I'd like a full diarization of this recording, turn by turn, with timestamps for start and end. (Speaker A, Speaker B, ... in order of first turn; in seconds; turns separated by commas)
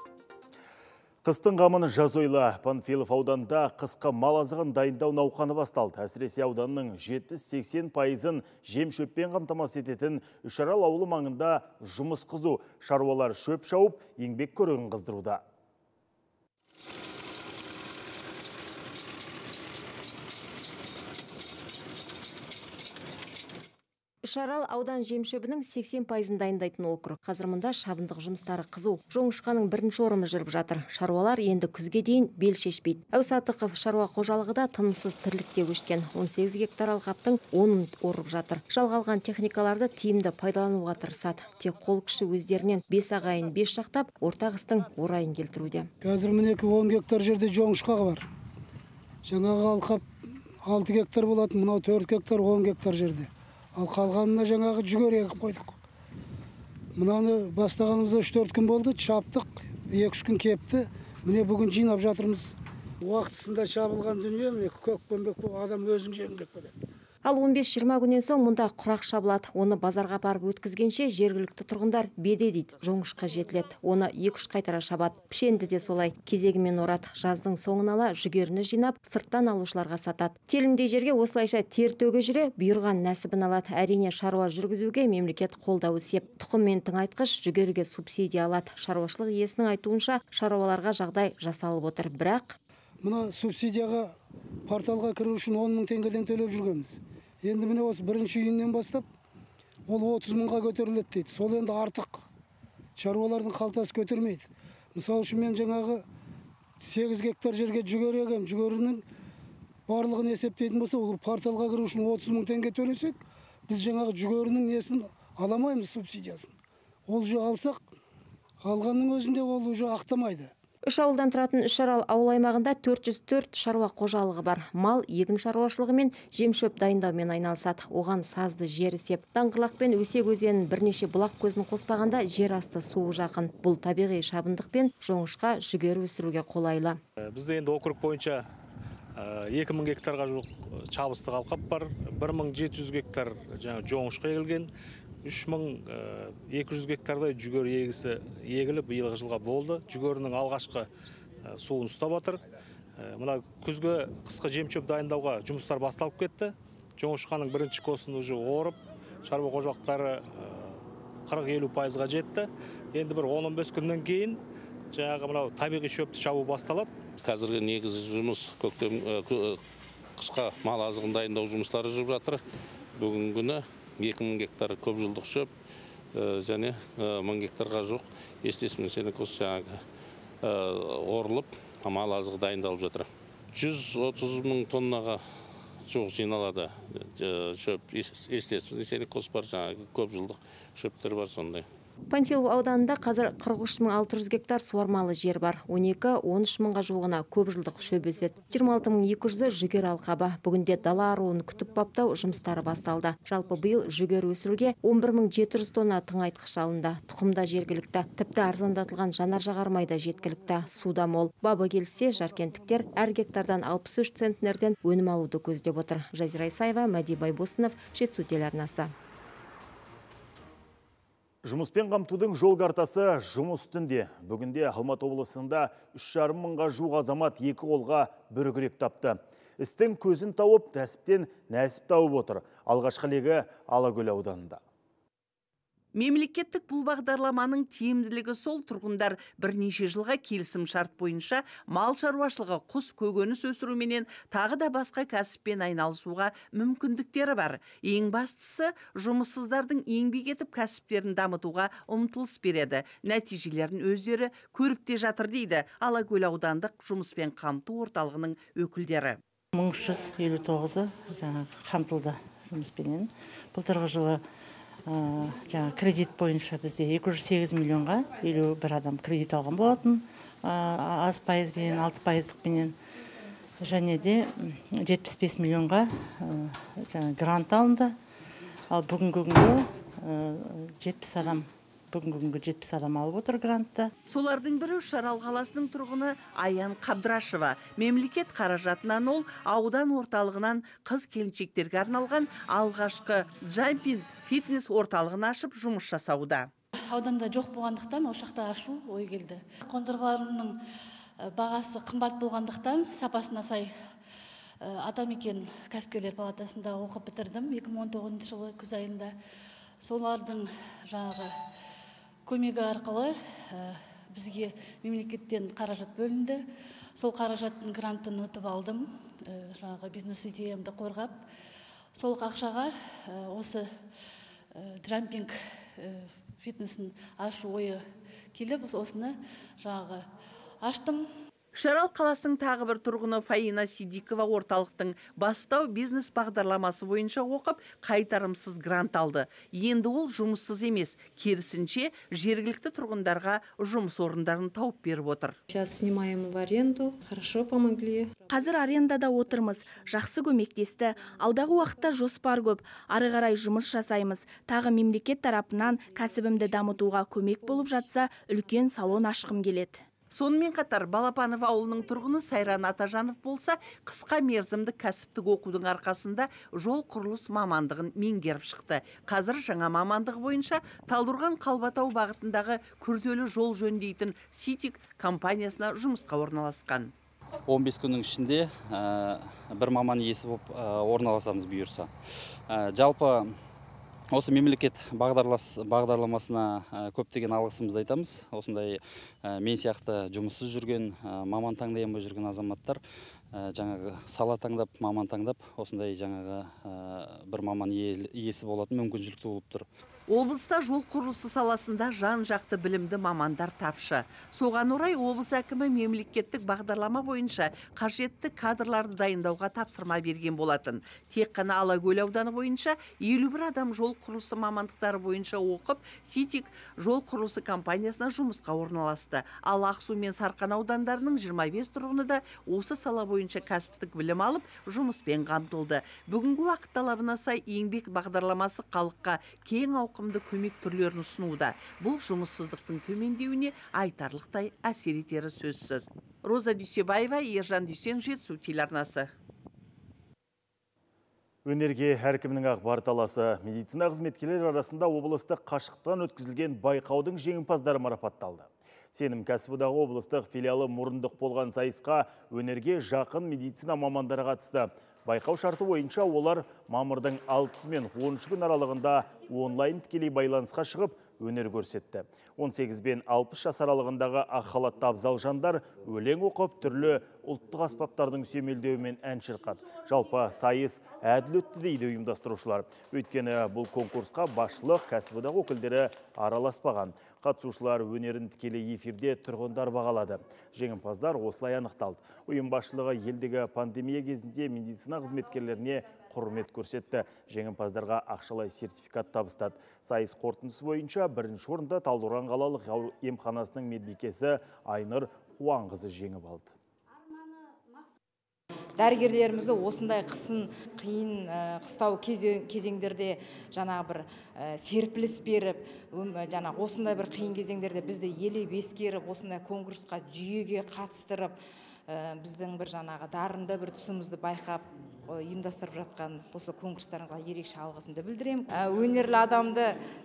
Speaker A: 1.2-15.4, Speaker B: 24.2-45.9, Speaker C: 46.0-48.3, Speaker C: 49.2-50.0, Speaker C: 50.6-55.8, Speaker C: 57.0-66.7, Speaker B: 67.2-92.6, Speaker C: 93.0-94.1, Speaker C: 94.7-99.1, Speaker C: 99.9-102.2, Speaker C: 103.0-106.0, Speaker C: 106.8-109.0, Speaker C: 109.9-113.2, Speaker C: 113.7-116.5, Speaker C: 117.1-117.8, Speaker C: 118.6-120.5, Speaker B: 120.9-137.0, Speaker D: 137.2-138.4, Speaker D: 139.2-144.7, Speaker D: 145.2-150.9, Speaker D: 151.4-152.4, Speaker D: 153.0-164.4, Speaker D: 164.9-166.9, Speaker E: 167.2-169.6, Speaker E: 170.2-172.4, Speaker E: 173.0-175.5, Speaker E: 176.1-179.8, Speaker E: 180.4-185.2, Speaker E: 185.9-191.7, Speaker B: 192.1-218.9, Speaker A: 221.4-234.6, Speaker F: 235.9-259.2, Speaker G: 259.6-264.2, Speaker G: 264.9-272.7, Speaker G: 273.6-274.3, Speaker G: 274.9-277.9, Speaker G: 278.7-283.9, Speaker F: 284.1-296.5, Speaker H: 296.8-300.6, Speaker H: 301.2-303.7, Speaker H: 304.6-309.1, Speaker H: 309.8-311.3, Speaker H: 312.3-316.4, Speaker H: 317.0-321.2, Speaker H: 322.0-323.6, Speaker H: 324.6-327.8, Speaker H: 328.3-330.0, Speaker H: 330.6-331.0, Speaker F: 331.6-345.4, Speaker I: 345.5-348.3, Speaker J: 348.3-359.8, Speaker F: 360.1-376.9, Speaker K: 377.5-381.9, Speaker K: 382.5-383.4, Speaker K: 384.1-392.8, Speaker K: 393.3-399.7, Speaker F: 400.1-439.1, Speaker A: 441.5-496.5, Speaker L: 498.8-505.6, Speaker L: 506.4-511.3, Speaker L: 512.3-514.6, Speaker L: 515.4-519.6